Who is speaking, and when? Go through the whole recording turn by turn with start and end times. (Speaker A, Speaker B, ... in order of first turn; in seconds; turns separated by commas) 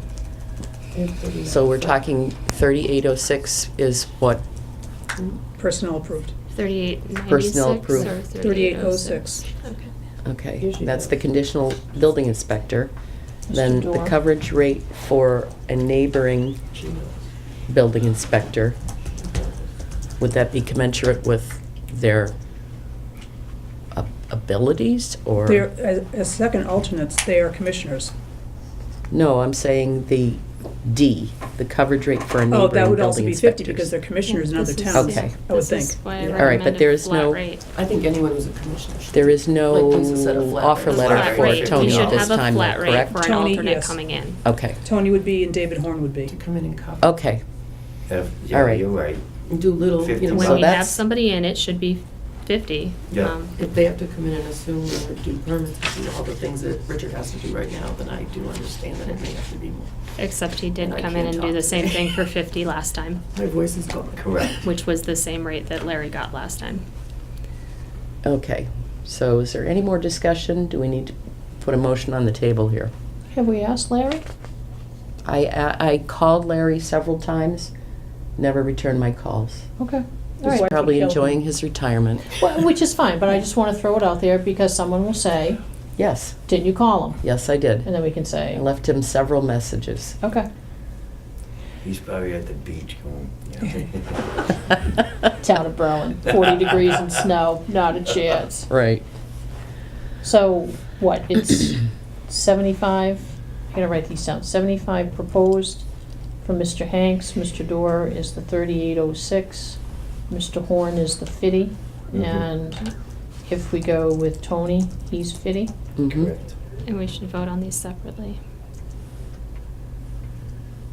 Speaker A: 0.9-2.0, Speaker B: 1.4-4.4, Speaker C: 5.6-6.3, Speaker D: 6.5-9.9, Speaker B: 7.3-8.1, Speaker C: 8.0-9.5, Speaker B: 10.2-12.9, Speaker A: 10.6-11.2, Speaker E: 13.5-14.2, Speaker B: 13.5-16.6, Speaker A: 16.7-17.2, Speaker B: 17.7-18.8, Speaker B: 20.2-22.4, Speaker B: 23.9-25.7, Speaker C: 25.4-28.1, Speaker B: 29.1-34.0, Speaker C: 32.5-36.0, Speaker D: 34.3-37.6, Speaker B: 34.9-35.3, Speaker A: 36.2-36.6, Speaker B: 36.4-37.4, Speaker A: 37.7-42.2, Speaker B: 39.1-43.1, Speaker D: 40.9-44.4, Speaker F: 41.0-42.3, Speaker C: 43.1-44.1, Speaker B: 44.4-44.8, Speaker C: 44.8-46.4, Speaker A: 46.3-47.1, Speaker B: 47.0-47.4, Speaker F: 48.1-49.2, Speaker B: 48.5-48.8, Speaker A: 49.5-50.7, Speaker F: 49.9-50.6, Speaker B: 50.3-51.0, Speaker D: 50.3-53.5, Speaker F: 53.1-53.4, Speaker A: 53.5-59.9, Speaker D: 60.2-63.2, Speaker A: 60.8-62.2, Speaker A: 63.3-64.6, Speaker F: 64.2-64.6, Speaker D: 64.6-66.8, Speaker B: 68.2-72.9, Speaker E: 73.3-74.2, Speaker B: 75.2-77.7, Speaker B: 78.4-79.7, Speaker E: 79.8-80.7, Speaker C: 80.4-81.4, Speaker B: 80.5-82.4, Speaker E: 82.3-85.6, Speaker B: 86.0-86.4, Speaker E: 86.5-87.3, Speaker B: 87.2-90.2, Speaker E: 87.8-88.6, Speaker E: 90.2-90.5, Speaker F: 91.8-94.2, Speaker E: 95.4-98.7, Speaker B: 98.7-99.0, Speaker E: 100.2-105.9, Speaker E: 106.4-112.9, Speaker F: 112.1-112.5, Speaker E: 113.4-115.7, Speaker B: 116.0-116.3, Speaker F: 116.1-116.4, Speaker D: 116.8-118.4